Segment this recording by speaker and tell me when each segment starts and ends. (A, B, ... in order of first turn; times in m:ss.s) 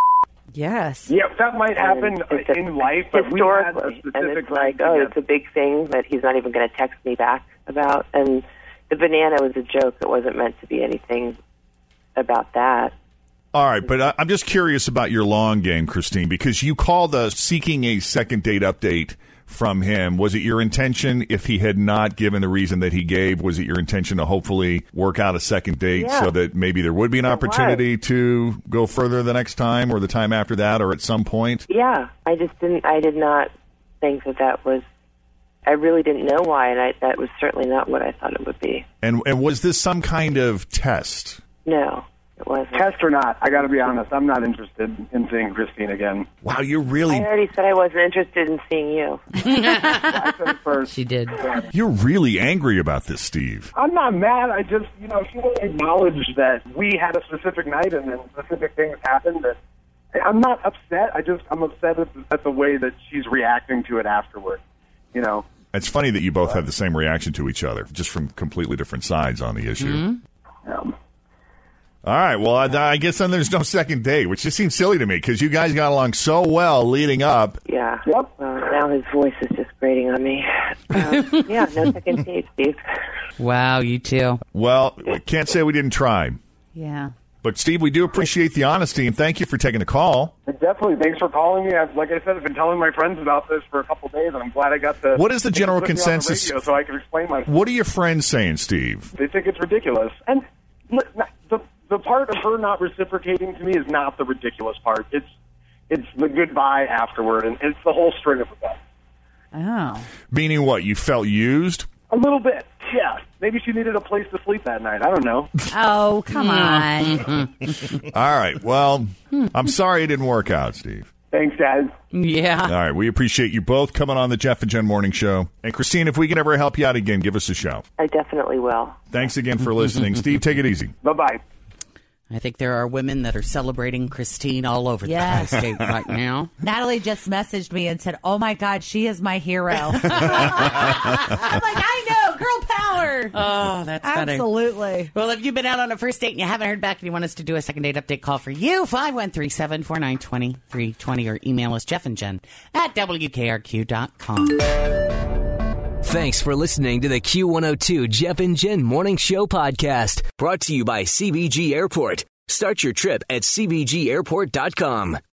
0:00.5-0:01.1 A
0:01.1-0:05.2 B
0:01.8-0:11.4 C
0:12.2-0:12.9 C
0:13.5-0:31.6 D
0:25.9-0:26.3 C
0:27.2-0:27.8 C
0:31.7-0:33.5 C
0:34.0-0:34.8 C
0:35.6-0:38.8 C
0:39.0-0:41.4 D
0:41.6-0:43.0 C
0:42.7-0:46.2 B
0:46.4-0:47.3 D
0:47.1-0:49.2 C
0:49.5-0:50.1 E
0:49.6-0:51.6 B
0:50.9-0:51.4 E
0:51.7-0:53.7 D
0:53.8-0:59.6 B
1:00.1-1:04.6 B
1:05.1-1:05.4 B
1:05.7-1:10.0 D
1:09.8-1:10.2 E
1:10.6-1:10.9 B
1:12.0-1:17.6 D
1:17.6-1:22.8 C
1:18.0-1:18.3 B
1:23.4-1:24.4 E
1:24.5-1:26.4 D
1:26.8-1:27.1 A
1:27.4-1:30.3 D
1:30.5-1:37.5 B
1:35.1-1:36.6 D
1:37.5-1:39.1 D
1:39.1-1:45.3 B
1:45.9-1:48.8 B
1:49.5-1:50.0 A
1:50.3-1:51.9 D
1:52.1-1:55.5 B
1:55.7-1:57.2 A
1:56.3-1:57.7 E
1:58.0-2:01.1 D
2:01.3-2:01.9 B
2:02.1-2:02.7 E
2:02.6-2:07.8 D
2:08.0-2:09.0 C
2:09.1-2:10.9 D
2:11.0-2:11.4 B
2:12.3-2:16.6 E
2:15.0-2:15.6 A
2:16.6-2:23.4 A
2:19.9-2:21.5 E
2:23.3-2:34.7 E
2:24.0-2:25.1 A
2:36.0-2:45.2 F